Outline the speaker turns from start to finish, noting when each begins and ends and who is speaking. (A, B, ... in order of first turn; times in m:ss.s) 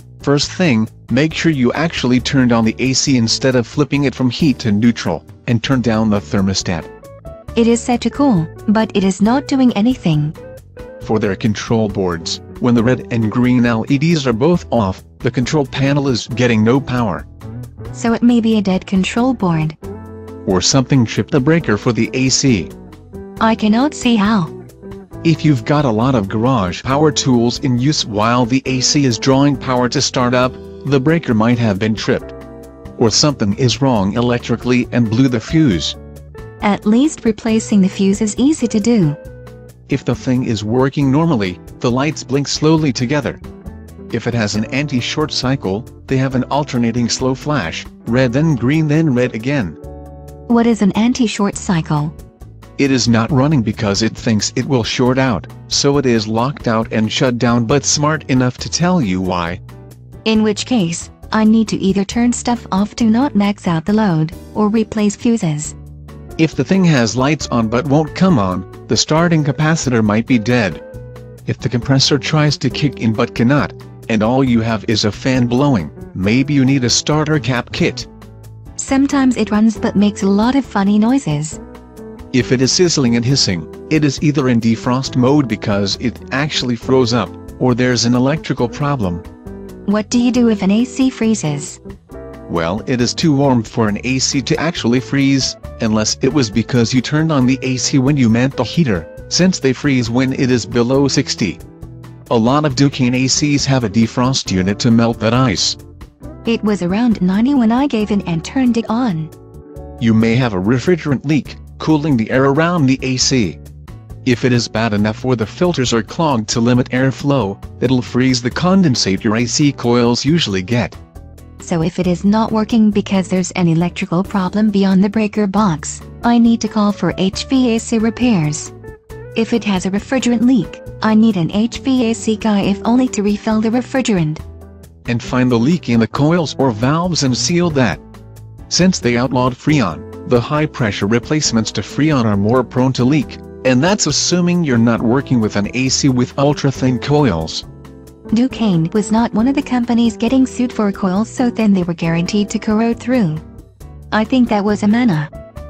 0:00.2-0:06.9 A
0:07.6-0:10.4 B
0:11.0-0:17.2 A
0:17.9-0:19.8 B
0:20.4-0:22.7 A
0:23.4-0:24.5 B
0:25.2-0:32.3 A
0:33.0-0:36.0 A
0:36.6-0:39.2 B
0:39.9-0:43.4 A
0:44.1-0:49.8 A
0:50.5-0:52.1 B
0:52.8-0:59.6 A
1:00.2-1:05.8 B
1:06.4-1:10.8 A
1:11.5-1:18.1 A
1:18.8-1:21.6 B
1:22.3-1:29.2 A
1:29.8-1:31.8 B
1:32.5-1:41.6 A
1:42.3-1:45.8 A
1:46.4-1:49.3 B
1:50.0-1:53.6 A
1:54.2-2:01.0 A
2:01.6-2:08.7 B
2:09.3-2:14.4 B
2:15.1-2:18.0 A
2:18.7-2:27.6 A
2:28.3-2:33.4 B
2:34.1-2:35.3 B